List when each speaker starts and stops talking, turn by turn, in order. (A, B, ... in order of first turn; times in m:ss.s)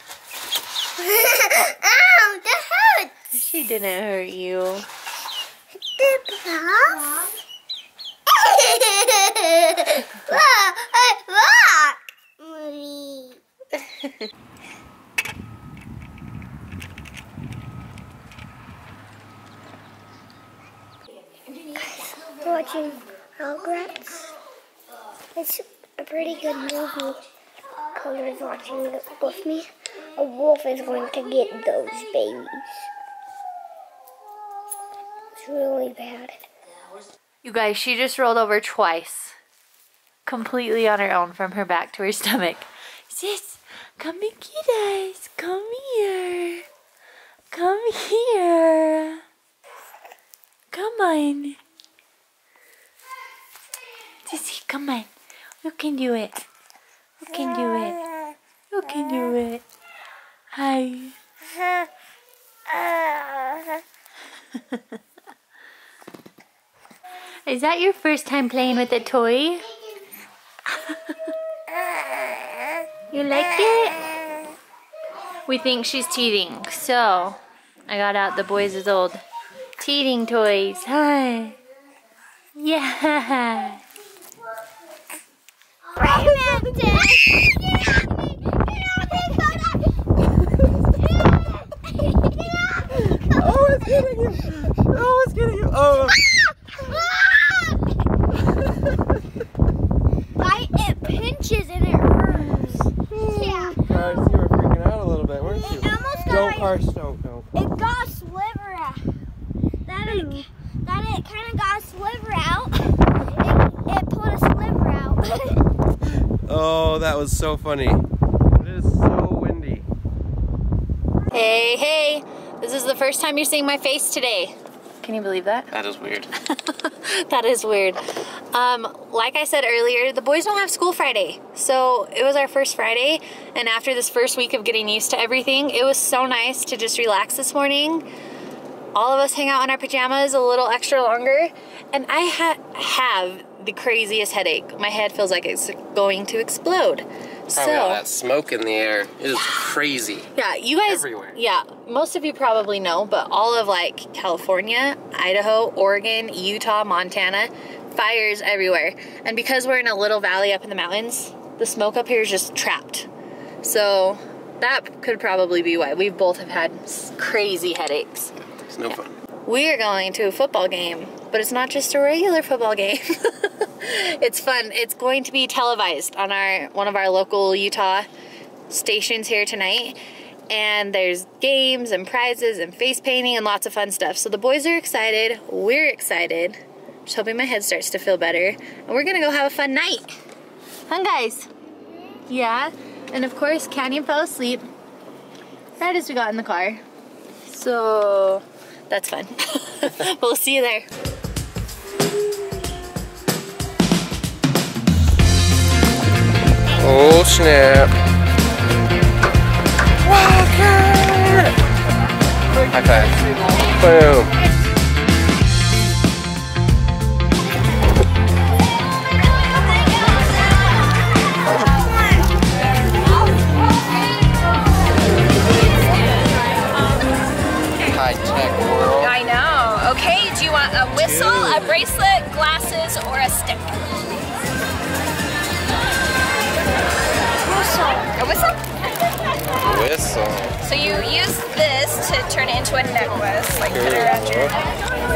0:01.0-0:03.1 A
0:03.3-0:04.9 B
0:06.0-0:07.3 A
0:08.3-0:13.4 A
0:22.1-0:24.3 A
0:25.4-0:27.2 A
0:28.0-0:32.7 A
0:35.4-0:36.5 A
0:37.4-0:39.4 B
0:40.3-0:46.6 B
0:47.5-0:49.2 B
0:50.7-0:51.6 B
0:54.3-0:55.1 B
0:55.6-0:56.4 B
0:57.2-0:58.0 B
0:58.7-0:59.6 B
1:00.5-1:01.2 B
1:07.5-1:09.7 B
1:13.1-1:14.0 B
1:15.5-1:19.2 B
1:19.8-1:21.6 B
1:22.6-1:23.8 B
1:25.9-1:27.8 A
1:28.7-1:29.6 A
1:33.3-1:36.2 C
1:40.4-1:44.0 A
1:43.3-1:47.5 C
1:45.4-1:46.7 A
1:47.5-1:49.0 A
1:49.9-1:55.6 A
1:50.1-1:50.4 B
1:56.5-1:58.0 C
1:58.6-1:59.9 C
2:01.3-2:05.7 B
2:05.7-2:06.3 C
2:06.5-2:18.1 B
2:19.0-2:28.0 B
2:27.5-2:30.3 C
2:30.4-2:43.1 B
2:30.9-2:31.4 C
2:43.6-2:48.3 B
2:48.7-2:49.1 C
2:49.5-2:58.1 B
2:58.7-3:00.0 B
3:00.5-3:10.1 B
3:10.9-3:11.5 B
3:12.3-3:14.7 B
3:15.8-3:16.8 B
3:17.5-3:20.9 B
3:26.8-3:27.9 C
3:30.0-3:31.5 C
3:32.7-3:34.4 C
3:47.8-3:49.2 C
3:49.0-3:53.8 D
3:50.9-3:51.8 C
3:57.5-3:58.6 D
3:59.6-4:00.6 C
4:00.6-4:04.4 D
4:03.6-4:04.6 C